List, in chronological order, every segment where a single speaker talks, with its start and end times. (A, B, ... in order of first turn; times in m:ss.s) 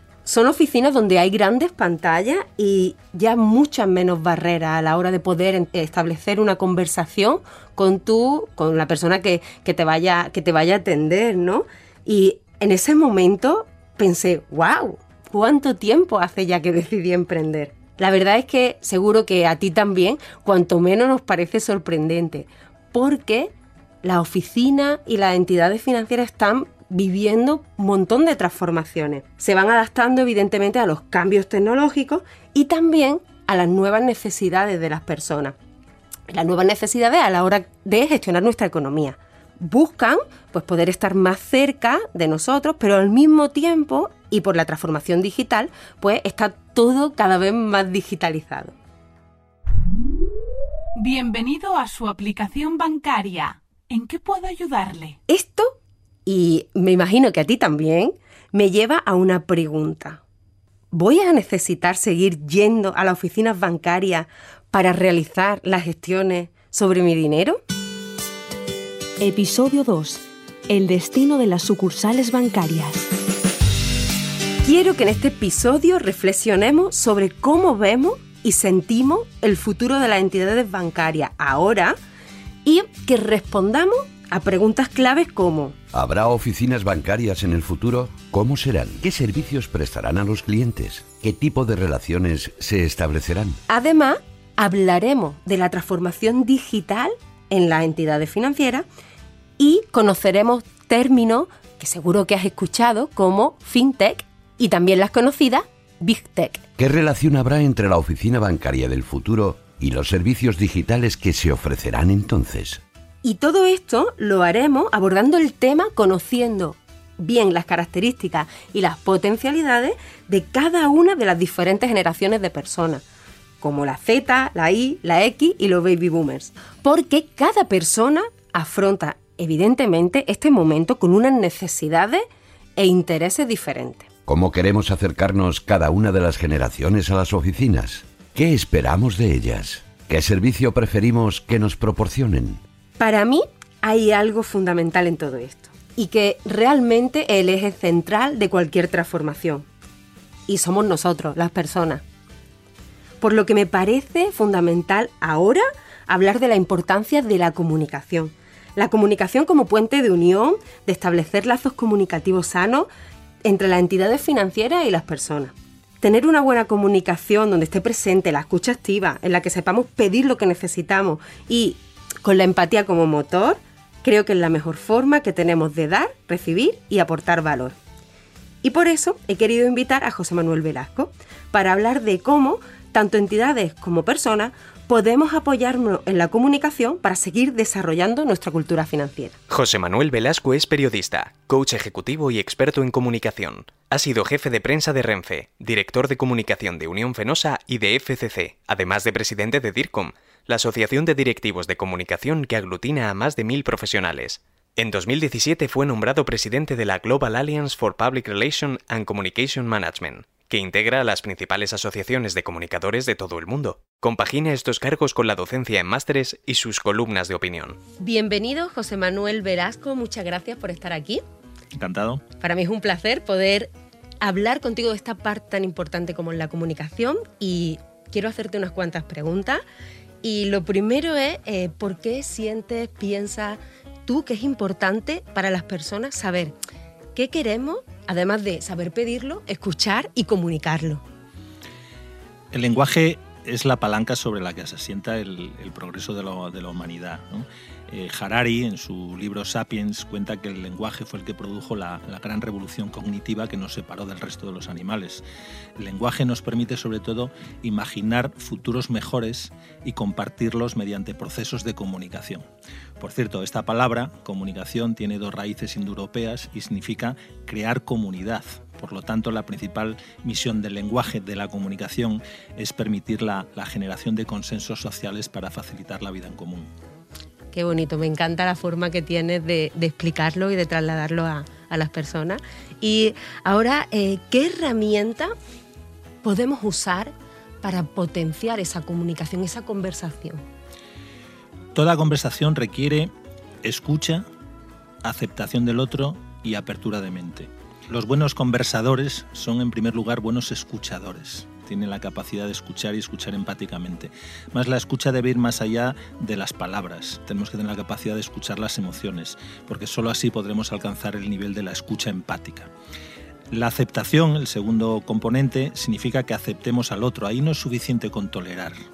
0:00.2-0:35.5 A
0:36.3-0:48.7 A
0:50.9-0:55.2 B
0:55.3-0:55.7 A
0:56.2-1:00.2 A
1:00.9-1:07.6 A
1:09.2-1:13.1 C
1:14.6-1:22.0 A
1:22.6-1:25.7 A
1:25.9-1:33.6 D
1:33.7-1:38.8 A
1:39.6-1:46.6 A
1:46.8-1:52.8 D
1:53.2-2:03.0 A
2:03.6-2:12.2 A
2:12.8-2:14.1 A
2:14.3-2:22.6 D
2:23.0-2:29.6 A
2:30.5-2:32.0 A
2:33.2-2:42.9 A
2:43.4-2:57.7 A
2:58.6-3:09.4 A
3:09.5-3:37.8 E
3:38.0-3:41.2 A
3:41.8-3:42.2 F
3:42.4-3:49.6 A
3:50.2-3:56.5 A
3:57.1-4:01.0 A
4:02.5-4:15.2 F
4:15.8-4:22.5 F
4:23.0-4:36.7 F
4:37.5-4:45.3 A
4:46.2-4:50.4 A
4:51.7-4:53.1 F
4:53.6-4:54.2 F
4:55.0-5:12.7 F
5:13.5-5:18.8 F